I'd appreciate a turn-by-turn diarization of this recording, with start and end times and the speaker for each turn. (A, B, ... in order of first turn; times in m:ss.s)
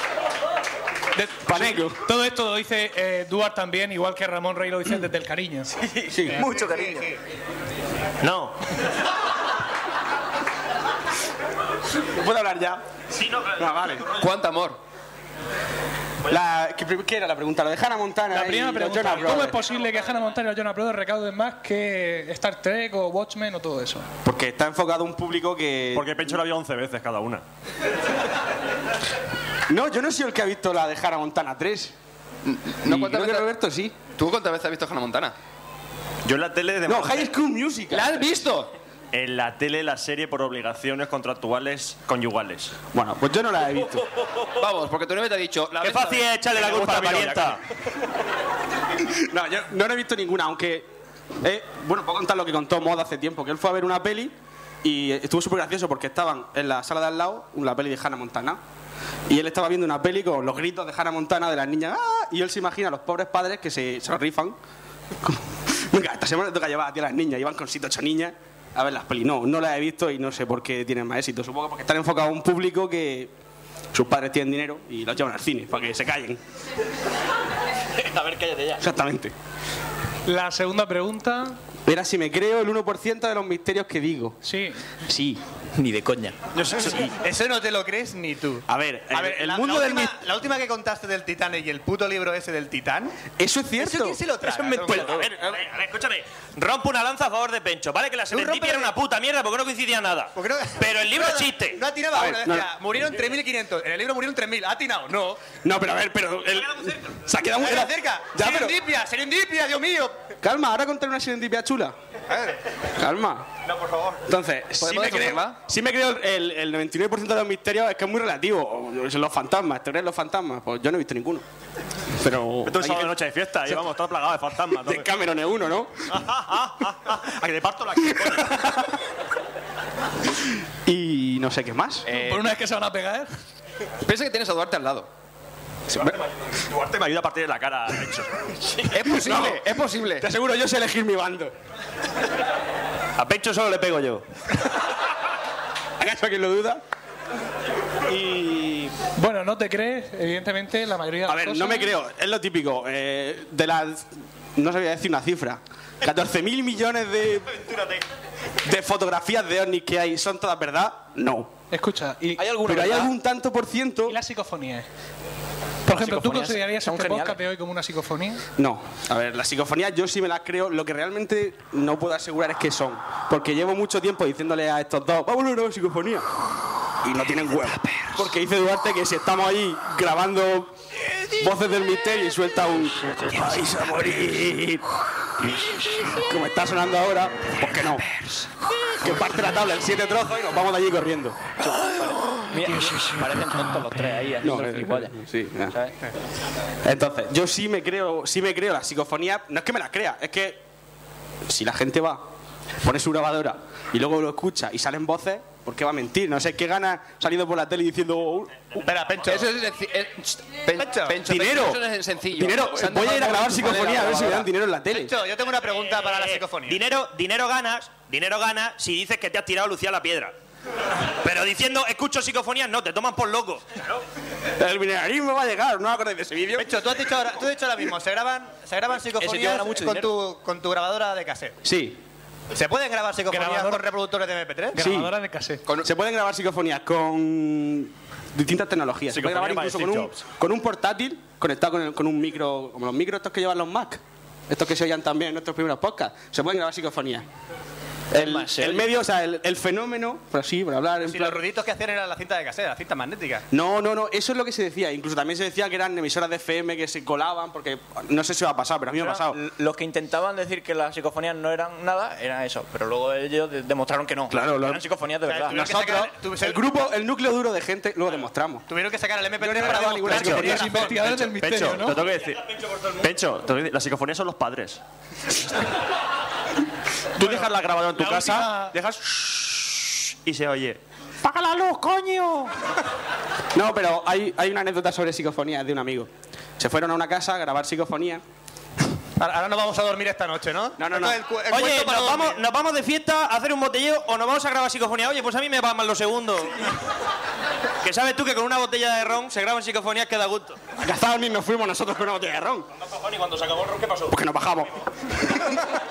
0:01.2-0:05.7 A
0:01.4-0:02.0 B
0:05.8-0:07.1 B
0:06.4-0:07.1 C
0:08.2-0:08.6 D
0:12.0-0:12.8 B
0:13.1-0:14.0 D
0:13.6-0:14.1 B
0:14.2-0:14.8 E
0:16.2-0:19.6 B
0:18.3-0:24.1 A
0:24.2-0:26.4 B
0:25.9-0:27.4 F
0:29.7-0:31.9 B
0:32.4-0:33.5 E
0:32.8-0:34.0 B
0:34.1-0:35.3 E
0:36.2-0:37.3 F
0:36.8-0:38.3 B
0:37.9-0:38.7 E
0:39.1-0:42.7 F
0:42.9-0:44.0 B
0:44.6-0:46.3 E
0:45.8-0:47.6 D
0:46.5-0:47.6 F
0:49.2-0:50.8 B
0:51.4-0:54.3 B
0:54.8-0:58.6 B
0:59.3-1:04.6 B
1:05.2-1:13.3 B
1:13.9-1:16.4 B
1:18.3-1:18.7 D
1:18.8-1:19.3 B
1:20.2-1:21.6 A
1:21.8-1:24.4 B
1:24.4-1:24.8 A
1:25.1-1:25.4 B
1:25.8-1:26.4 G
1:26.6-1:27.1 B
1:26.6-1:27.1 F
1:27.2-1:33.2 C
1:28.7-1:30.2 B
1:33.3-1:35.6 B
1:33.8-1:35.2 C
1:34.7-1:41.8 D
1:38.3-1:38.9 C
1:40.4-1:45.5 C
1:42.1-1:42.7 B
1:45.6-1:48.8 B
1:47.6-1:50.2 C
1:50.4-1:51.9 B
1:52.3-1:52.6 C
1:53.0-1:53.5 B
1:53.6-1:54.2 D
1:54.3-2:01.4 B
1:54.8-1:55.6 E
2:02.2-2:03.8 B
2:02.6-2:05.1 F
2:04.8-2:06.1 B
2:06.3-2:08.6 F
2:08.1-2:08.9 B
2:10.8-2:12.1 B
2:12.1-2:12.5 E
2:12.1-2:13.3 A
2:14.0-2:15.1 E
2:15.9-2:16.2 B
2:16.6-2:18.5 F
2:18.9-2:20.3 E
2:19.0-2:21.5 B
2:23.2-2:24.2 D
2:26.0-2:26.8 B
2:28.0-2:28.9 B
2:29.2-2:31.9 A
2:31.3-2:37.6 B
2:38.6-2:41.5 B
2:41.7-2:42.4 A
2:42.4-2:43.1 G
2:42.6-2:44.2 B
2:44.0-2:44.8 A
2:45.8-2:48.4 A
2:45.9-2:47.4 G
2:48.6-2:56.2 B
2:57.0-3:00.7 B
3:01.3-3:04.9 B
3:06.0-3:08.0 B
3:09.0-3:11.4 B
3:11.6-3:15.2 G
3:14.4-3:15.8 B
3:16.8-3:20.6 B
3:21.5-3:22.2 B
3:22.8-3:28.9 B
3:28.8-3:29.5 C
3:29.2-3:34.5 E
3:30.8-3:31.2 C
3:31.2-3:31.8 B
3:32.3-3:35.2 B
3:34.9-3:36.8 C
3:36.0-3:40.3 D
3:41.2-3:44.0 D
3:44.6-3:47.1 B
3:46.6-3:51.6 C
3:49.3-3:50.0 G
3:51.6-3:52.0 B
3:52.5-3:54.8 C
3:53.3-3:53.9 A
3:54.7-3:55.6 A
3:54.8-3:55.1 B
3:55.8-4:07.2 B
3:59.1-4:00.2 F
4:08.1-4:11.4 B
4:08.1-4:08.9 G
4:11.0-4:13.4 C
4:13.5-4:19.4 B
4:19.0-4:26.0 G
4:24.3-4:24.8 B
4:25.2-4:26.7 C
4:25.5-4:28.6 B
4:28.7-4:31.1 C
4:29.4-4:31.0 B
4:30.1-4:32.0 A
4:31.0-4:34.8 F
4:37.2-4:39.2 F
4:37.2-4:38.7 A
4:40.3-4:40.8 D
4:41.2-4:42.5 B
4:43.5-4:48.2 B
4:49.2-4:52.4 C
4:50.8-4:51.2 B
4:51.5-4:56.7 D
4:57.8-5:00.6 D
5:00.8-5:02.7 B
5:02.7-5:04.2 D
5:04.1-5:05.6 B